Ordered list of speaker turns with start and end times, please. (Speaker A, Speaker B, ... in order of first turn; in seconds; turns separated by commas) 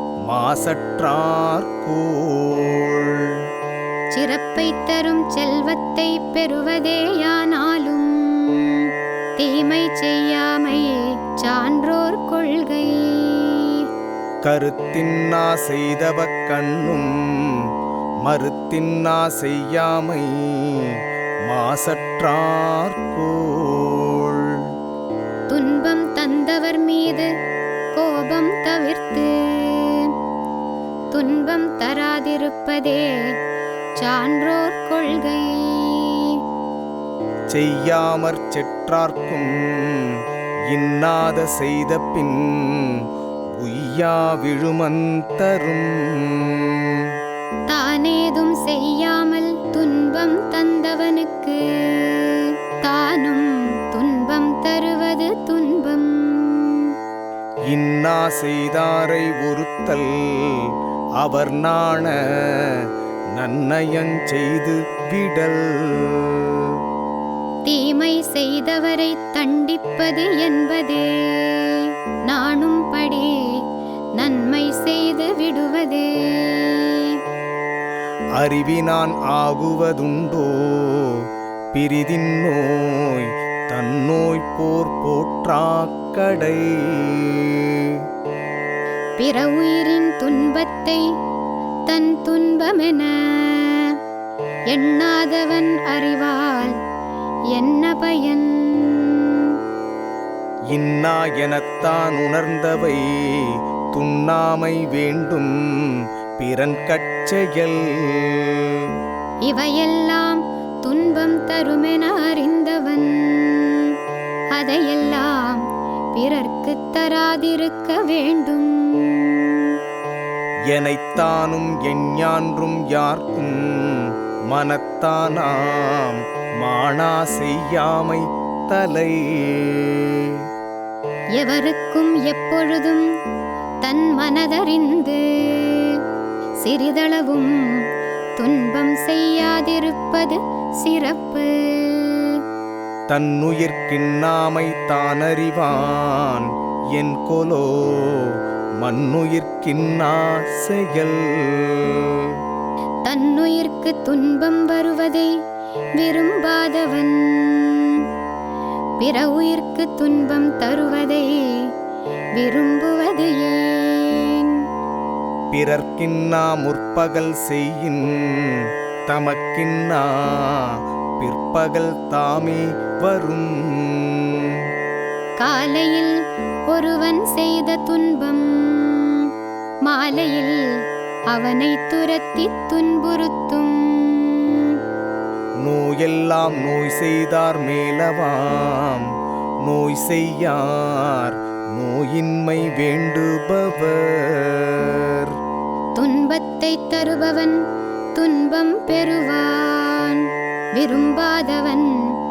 Speaker A: 0.3-3.3, Speaker B: 4.1-13.8, Speaker A: 14.4-17.5, Speaker A: 18.2-20.9, Speaker A: 21.5-24.6, Speaker B: 25.5-27.3, Speaker B: 27.9-30.1, Speaker B: 31.1-33.1, Speaker B: 34.0-36.4, Speaker A: 37.5-40.1, Speaker A: 40.7-43.0, Speaker A: 43.6-47.1, Speaker B: 47.7-56.9, Speaker A: 57.7-60.7, Speaker A: 61.2-62.8, Speaker A: 63.4-66.8, Speaker B: 67.7-73.3, Speaker B: 74.2-77.2, Speaker A: 78.4-81.2, Speaker A: 81.7-88.0, Speaker B: 89.2-91.0, Speaker B: 91.9-93.9, Speaker B: 94.7-96.8, Speaker B: 97.5-99.5, Speaker A: 100.7-108.9, Speaker B: 109.5-113.9, Speaker B: 114.5-115.6, Speaker B: 116.2-119.7, Speaker A: 120.7-130.4, Speaker B: 131.4-133.1, Speaker B: 133.8-136.0, Speaker B: 136.6-137.6, Speaker B: 138.4-142.4, Speaker A: 143.1-152.4, Speaker B: 153.1-155.3, Speaker B: 156.0-158.0, Speaker B: 159.0-161.6, Speaker B: 162.4-164.6, Speaker A: 165.5-174.6, Speaker B: 175.4-176.1, Speaker B: 176.7-179.3, Speaker B: 179.9-180.6, Speaker B: 181.3-184.8, Speaker A: 185.6-189.1, Speaker A: 189.6-195.3, Speaker B: 196.0-197.6, Speaker B: 198.2-200.2, Speaker B: 200.8-201.9